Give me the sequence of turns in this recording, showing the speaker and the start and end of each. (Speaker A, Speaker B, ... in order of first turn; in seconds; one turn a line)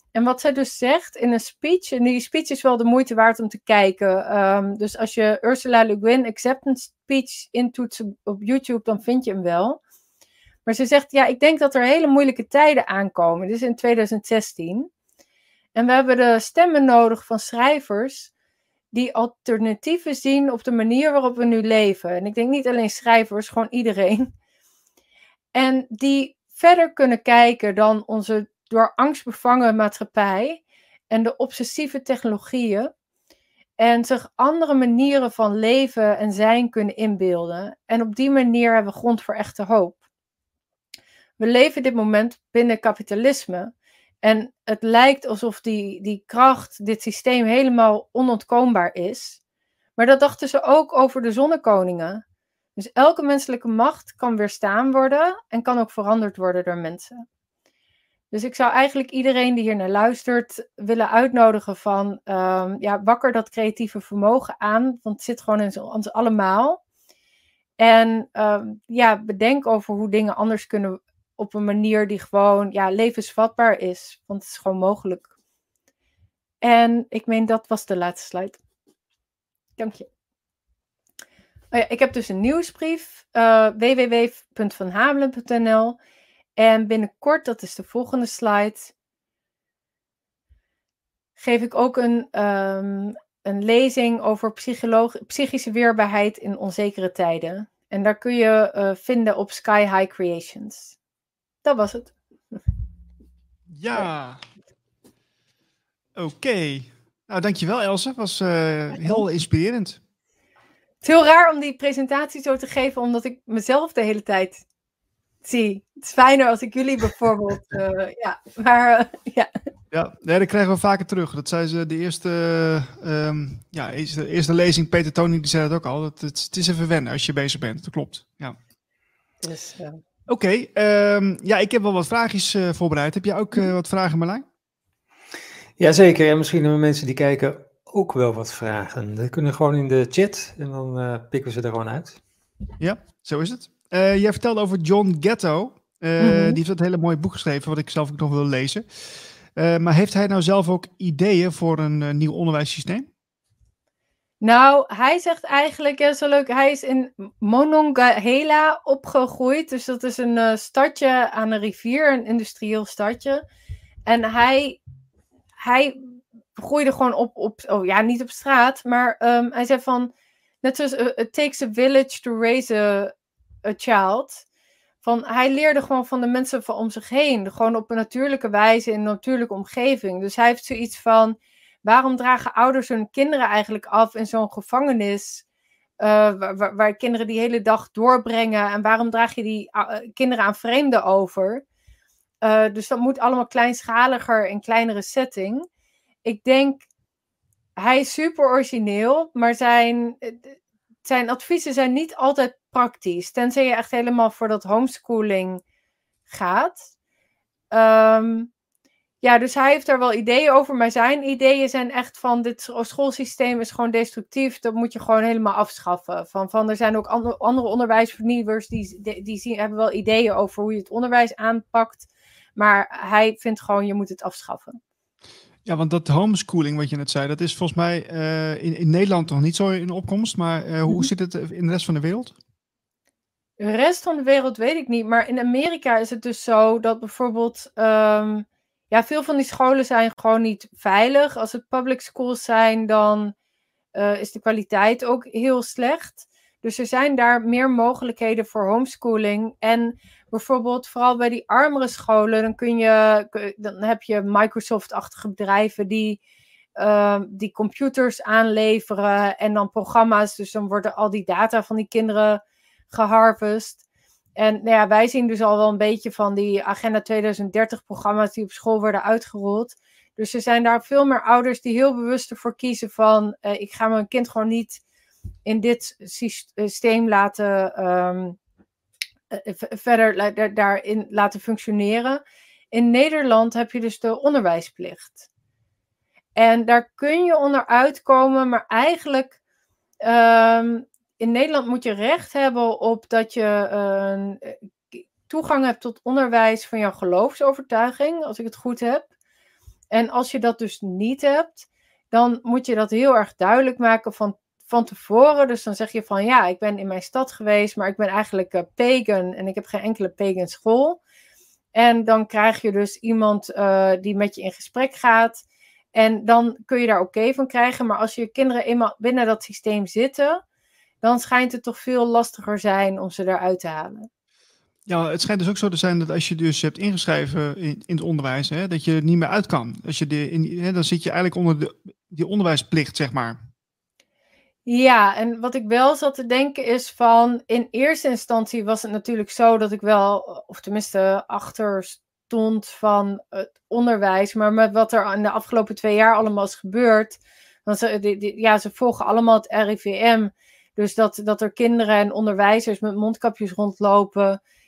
Speaker A: 0.1-9.8
Speaker A: 10.7-14.9
Speaker A: 15.7-18.3
Speaker A: 18.9-24.3
Speaker A: 25.5-32.9
Speaker A: 33.8-40.0
Speaker A: 41.4-49.4
Speaker A: 50.0-52.2
Speaker A: 52.8-57.2
Speaker A: 58.3-66.8
Speaker A: 67.8-75.3
Speaker A: 76.6-78.6
Speaker A: 79.8-80.1
Speaker A: 81.7-86.0
Speaker A: 86.6-88.9
Speaker A: 91.4-101.0
Speaker A: 101.6-102.1
Speaker B: 103.7-104.4
Speaker B: 106.2-110.0
Speaker A: 111.0-114.6
Speaker A: 115.4-119.5
Speaker B: 119.9-128.6
Speaker A: 129.4-130.0
Speaker B: 130.3-134.4
Speaker C: 135.8-142.2
Speaker B: 142.8-153.1
Speaker A: 146.2-146.6
Speaker A: 154.4-163.4
Speaker A: 164.1-164.8
Speaker A: 165.6-166.0
Speaker A: 166.6-170.1
Speaker A: 170.6-173.1
Speaker A: 173.6-174.4
Speaker A: 175.0-185.4
Speaker A: 186.0-191.6
Speaker A: 192.4-195.7
Speaker A: 196.2-196.8
Speaker A: 197.8-200.5
Speaker A: 201.0-205.6
Speaker A: 206.3-206.9
Speaker A: 207.7-208.5
Speaker A: 209.2-224.8
Speaker B: 225.6-232.3
Speaker A: 233.6-243.3
Speaker A: 243.9-256.2
Speaker A: 256.8-263.8
Speaker A: 264.4-274.8
Speaker A: 275.4-278.4
Speaker A: 279.3-285.3
Speaker A: 286.4-289.4
Speaker A: 290.0-299.0
Speaker A: 299.9-311.0
Speaker A: 311.7-320.4
Speaker A: 321.0-324.1
Speaker B: 324.9-333.4
Speaker A: 334.6-354.4